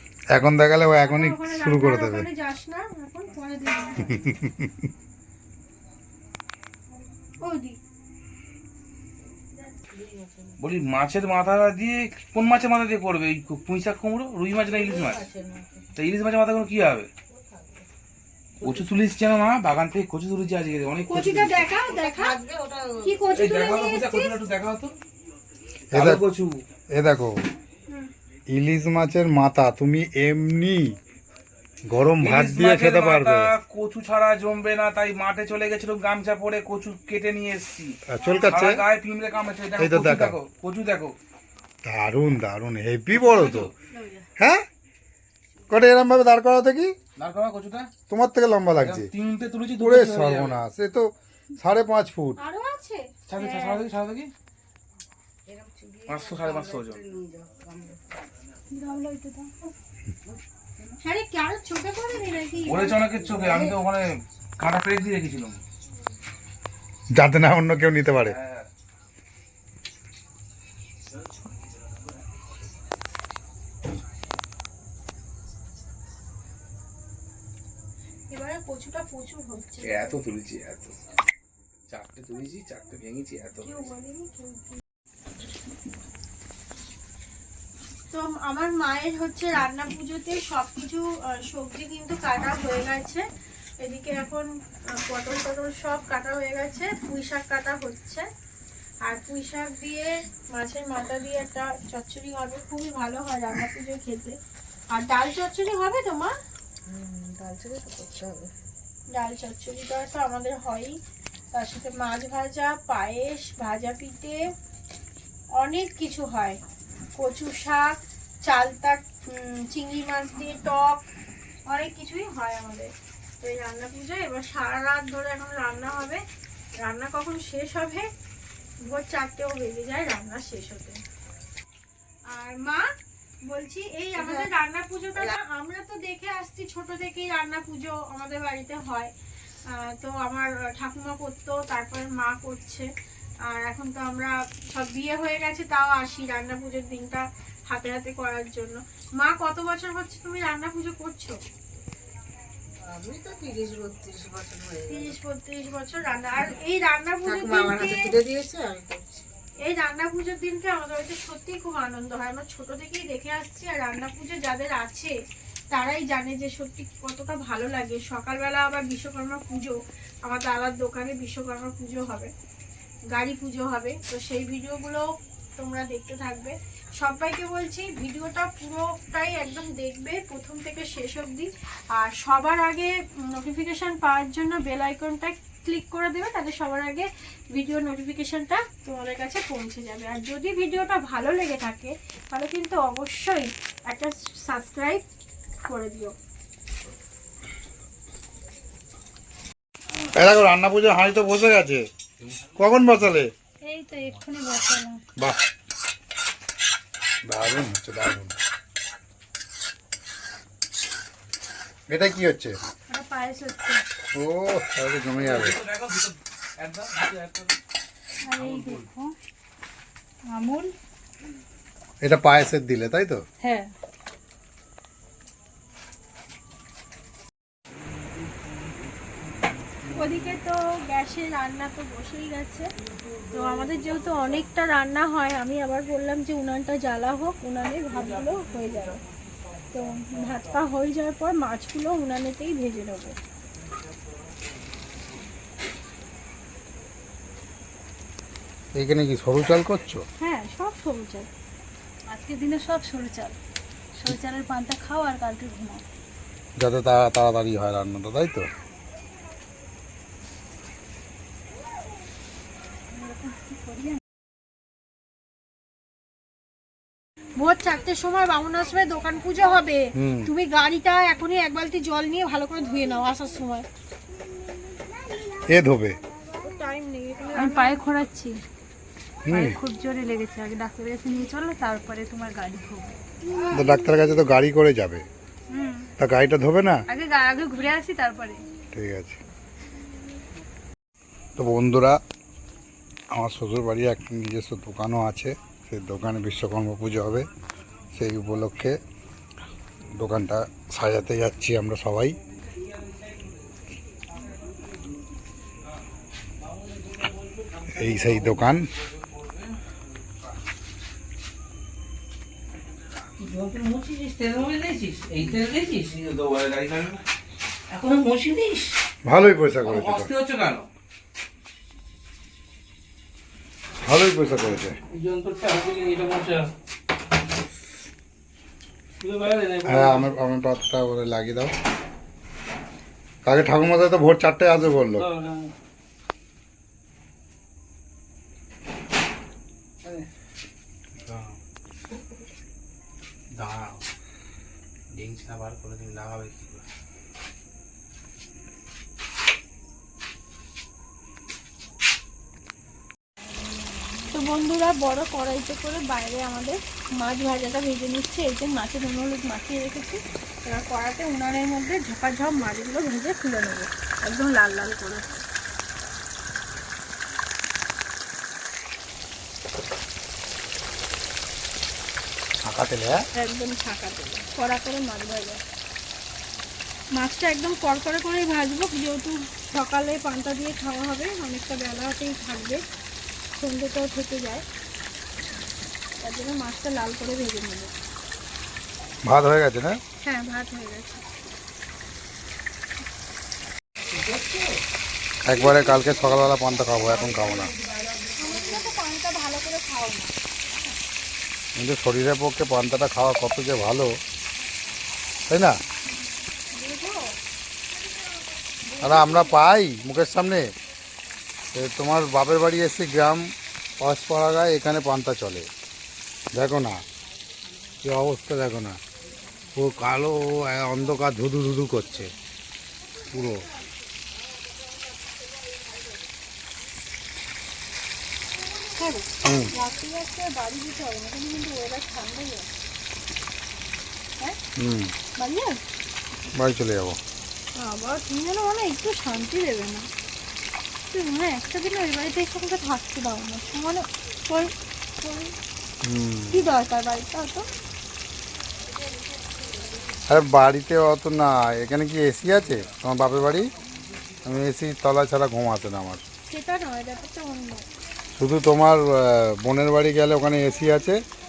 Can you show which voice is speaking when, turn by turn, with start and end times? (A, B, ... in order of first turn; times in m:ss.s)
0:00.3-0:02.2 A
0:01.1-0:04.3 B
0:04.2-0:04.7 A
0:07.4-0:07.8 B
0:09.7-0:10.6 C
0:10.6-0:15.2 D
0:14.6-0:15.9 C
0:16.0-0:17.1 D
0:17.3-0:17.9 C
0:18.6-0:21.6 D
0:21.1-0:22.4 B
0:21.9-0:23.2 C
0:23.0-0:24.4 B
0:23.3-0:24.9 D
0:25.9-0:26.2 A
0:25.9-0:26.6 D
0:26.9-0:27.3 A
0:28.5-0:30.9 A
0:31.9-0:33.5 A
0:32.2-0:41.1 D
0:38.1-0:38.8 A
0:39.8-0:40.4 A
0:41.8-0:43.7 A
0:43.1-0:43.7 D
0:44.4-0:44.6 A
0:45.7-0:46.9 A
0:47.2-0:47.9 D
0:48.1-0:49.1 A
0:48.8-0:50.6 D
0:49.8-0:52.4 A
0:52.4-0:53.8 B
0:53.3-0:54.3 D
0:55.4-0:58.0 C
0:56.1-0:57.0 D
0:58.7-0:59.5 E
1:01.0-1:03.7 B
1:02.6-1:05.6 D
1:07.1-1:08.3 A
1:08.2-1:08.7 D
1:18.3-1:20.2 B
1:19.8-1:21.0 D
1:21.9-1:23.9 D
1:23.6-1:24.8 B
1:28.1-1:33.2 B
1:33.8-1:38.2 B
1:39.0-1:44.4 B
1:44.9-1:46.3 B
1:46.9-1:48.5 C
1:49.1-1:51.0 B
1:51.5-1:54.4 B
1:55.5-1:56.6 B
1:57.2-2:01.0 B
2:01.7-2:06.2 B
2:06.8-2:08.1 B
2:08.8-2:11.0 B
2:12.3-2:12.8 B
2:13.5-2:19.1 B
2:14.2-2:14.4 C
2:19.7-2:22.9 B
2:23.5-2:31.4 B
2:32.8-2:35.2 C
2:34.9-2:38.1 B
2:37.2-2:39.3 C
2:39.6-2:45.1 B
2:45.7-2:52.3 B
2:53.1-2:55.0 B
2:55.6-3:15.0 B
3:15.7-3:16.1 B
3:20.1-3:21.8 A
3:22.6-3:23.3 A
3:23.6-3:25.0 E
3:27.3-3:28.4 A
3:31.9-3:32.6 A
3:32.9-3:33.8 E
3:34.1-3:35.6 A
3:35.2-3:37.6 D
3:38.2-3:39.1 E
3:38.3-3:38.8 D
3:40.3-3:40.7 E
3:42.0-3:43.2 A
3:43.4-3:43.7 E
3:49.9-3:52.7 B
3:53.3-3:59.0 B
3:59.7-4:03.1 B
4:08.7-4:10.0 A
4:10.2-4:11.3 B
4:12.1-4:13.4 E
4:14.0-4:15.8 E
4:16.6-4:18.4 A
4:22.9-4:24.0 E
4:27.4-4:33.6 B
4:30.0-4:30.3 A
4:35.4-4:36.0 A
4:36.4-4:37.7 B
4:37.3-4:38.4 E
4:39.3-4:39.6 A
4:39.3-4:42.9 E
4:43.5-4:45.0 A
4:45.5-4:45.9 E
4:46.0-4:46.8 A
4:46.9-4:48.4 E
4:48.7-4:49.2 A
4:51.4-4:52.0 A
4:53.1-4:57.3 A
4:57.9-4:58.8 A
5:00.0-5:02.2 A
5:07.7-5:08.7 A
5:08.8-5:09.6 D
5:13.2-5:17.0 D
5:17.7-5:18.2 D
5:19.0-5:20.1 A
5:19.6-5:20.7 D
5:23.8-5:24.8 A
5:25.0-5:26.4 D
5:29.1-5:29.6 D
5:29.6-5:31.5 A
5:33.2-5:35.1 A
5:41.0-5:41.3 D
5:43.3-5:43.8 D
5:44.9-5:46.6 D
5:54.1-6:05.1 B
6:12.4-6:13.0 A
6:13.1-6:15.4 B
6:17.0-6:22.6 B
6:23.3-6:24.4 B
6:26.0-6:27.7 B
6:29.0-6:29.8 A
6:30.0-6:31.0 B
6:35.2-6:37.5 A
6:38.1-6:40.1 B
6:41.6-6:43.9 A
6:45.3-6:45.6 A
6:46.5-6:47.2 B
6:48.7-6:49.5 B
6:48.8-6:50.4 A
6:51.5-6:53.3 A
6:53.8-6:55.5 A
6:56.3-6:56.8 A
6:57.8-6:58.8 A
6:59.5-7:02.1 A
7:03.1-7:03.4 A
7:08.7-7:12.5 B
7:09.2-7:09.5 A
7:14.6-7:14.9 A
7:15.2-7:15.6 B
7:16.3-7:17.0 A
7:17.5-7:19.9 B
7:20.9-7:25.3 B
7:25.8-7:26.4 A
7:26.3-7:27.4 B
7:30.1-7:33.5 A
7:34.2-7:36.0 A
7:36.2-7:37.6 B
7:38.1-7:41.0 A